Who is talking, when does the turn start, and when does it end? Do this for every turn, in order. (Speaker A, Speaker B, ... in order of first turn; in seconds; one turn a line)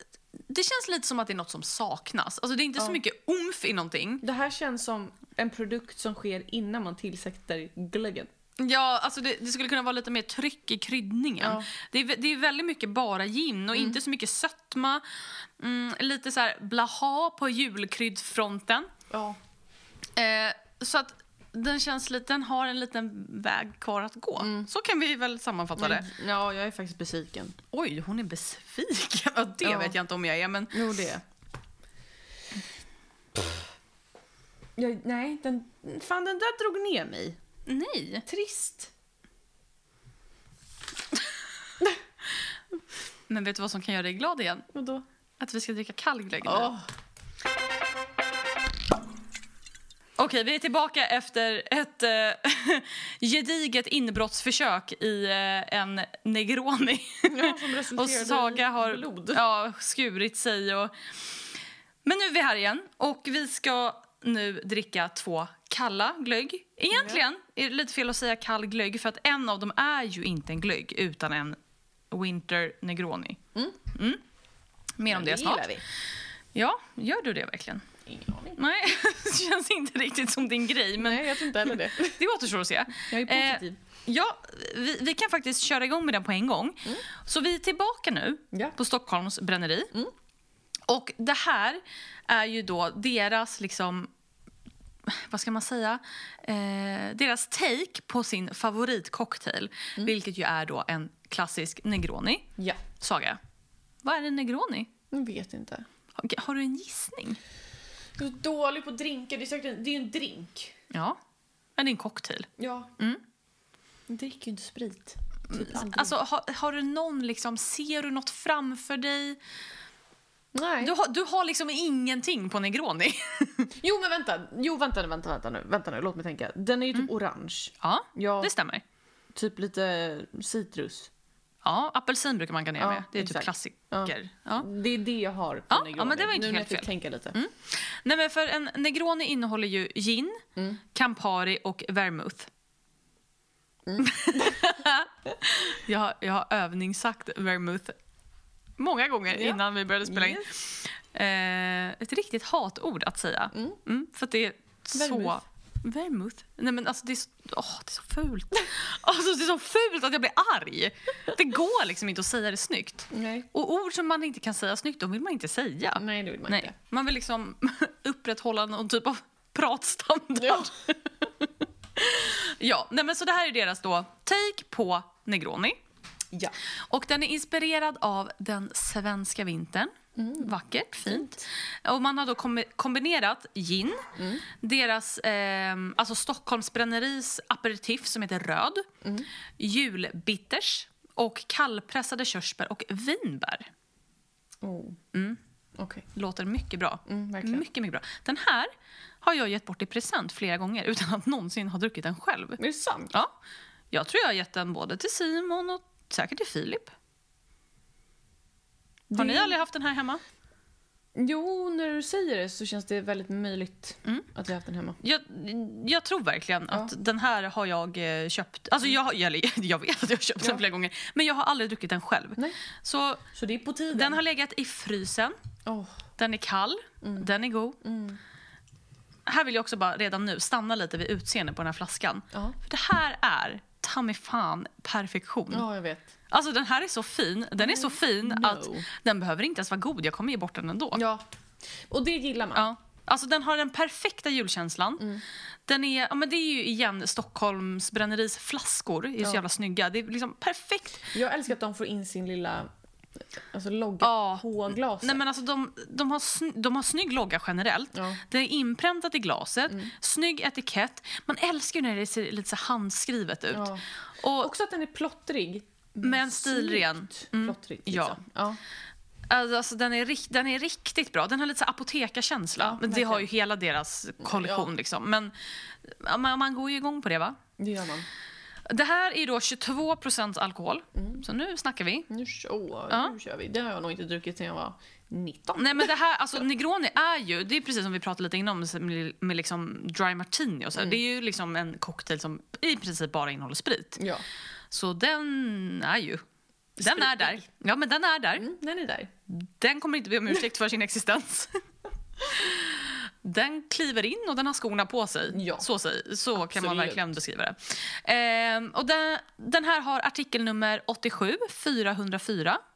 Speaker A: 0.5-4.2
Speaker B: 4.2-8.3
Speaker A: 8.6-18.9
Speaker B: 11.4-11.7
Speaker B: 19.1-19.4
Speaker A: 20.2-26.1
Speaker B: 24.4-24.7
Speaker B: 25.8-27.6
Speaker A: 27.7-30.8
Speaker B: 29.6-30.0
Speaker B: 30.7-31.2
Speaker B: 34.8-37.4
Speaker A: 37.7-38.3
Speaker B: 38.3-38.9
Speaker A: 43.3-44.7
Speaker B: 44.7-45.0
Speaker A: 45.4-46.7
Speaker B: 46.4-46.9
Speaker A: 50.2-60.9
Speaker B: 57.2-59.4
Speaker A: 62.0-71.6
Speaker B: 66.9-67.2
Speaker A: 72.1-74.2
Speaker A: 75.0-75.7
Speaker B: 75.1-75.8
Speaker A: 76.5-77.9
Speaker B: 78.1-78.6
Speaker A: 78.6-89.9
Speaker B: 81.0-82.2
Speaker B: 83.1-83.8
Speaker B: 88.5-88.8
Speaker A: 90.9-94.1
Speaker A: 95.1-103.4
Speaker B: 102.6-102.8
Speaker A: 104.0-104.9
Speaker B: 105.1-105.9
Speaker A: 106.2-107.4
Speaker B: 108.2-110.8
Speaker A: 110.9-111.2
Speaker A: 111.8-113.2
Speaker B: 112.6-112.9
Speaker B: 114.1-116.2
Speaker A: 115.5-119.4
Speaker B: 120.5-120.9
Speaker A: 120.8-123.7
Speaker B: 123.8-128.5
Speaker A: 127.8-128.8
Speaker B: 129.3-131.1
Speaker A: 131.6-134.7
Speaker B: 132.8-137.4
Speaker A: 135.7-142.5
Speaker B: 140.6-140.8
Speaker B: 143.9-144.8
Speaker A: 144.0-148.0
Speaker A: 148.8-175.8
Speaker B: 149.3-150.4
Speaker B: 153.5-153.8
Speaker B: 154.9-155.4
Speaker B: 163.1-163.5
Speaker B: 166.0-166.7
Speaker B: 170.4-170.7
Speaker B: 176.3-176.6
Speaker A: 176.9-184.1
Speaker B: 180.2-180.5
Speaker B: 181.1-181.3
Speaker B: 184.2-184.4
Speaker A: 184.6-188.9
Speaker B: 189.0-189.3
Speaker A: 189.6-193.7
Speaker B: 194.6-195.0
Speaker A: 195.1-195.4
Speaker B: 195.8-196.1
Speaker A: 196.1-202.6
Speaker B: 197.1-197.7
Speaker B: 202.6-203.1
Speaker A: 203.9-206.9
Speaker B: 209.1-209.6
Speaker A: 209.2-210.2
Speaker B: 211.2-215.0
Speaker A: 215.0-223.2
Speaker B: 223.3-224.2
Speaker A: 223.9-225.4
Speaker B: 225.7-226.0
Speaker A: 226.2-227.8
Speaker B: 227.0-227.3
Speaker B: 227.8-228.2
Speaker A: 229.3-235.7
Speaker B: 235.5-236.1
Speaker A: 236.3-241.0
Speaker B: 237.6-238.9
Speaker B: 240.9-241.2
Speaker B: 241.9-242.7
Speaker A: 242.6-245.1
Speaker A: 245.7-251.1
Speaker B: 251.1-252.7
Speaker B: 253.5-255.2
Speaker A: 254.0-254.4
Speaker A: 255.0-264.5
Speaker B: 257.9-258.2
Speaker B: 263.5-263.8
Speaker B: 264.4-268.6
Speaker A: 266.0-268.2
Speaker A: 269.3-277.4
Speaker B: 272.6-273.3
Speaker B: 274.2-274.7
Speaker B: 277.6-278.1
Speaker A: 278.7-282.1
Speaker B: 281.0-281.2
Speaker B: 282.1-285.9
Speaker A: 282.9-283.1
Speaker A: 285.6-294.0
Speaker B: 294.0-294.2
Speaker A: 294.7-296.2
Speaker B: 296.8-297.5
Speaker A: 296.8-298.5
Speaker B: 298.4-299.1
Speaker A: 299.3-301.6
Speaker A: 302.2-312.6
Speaker B: 305.3-305.7
Speaker B: 306.4-307.2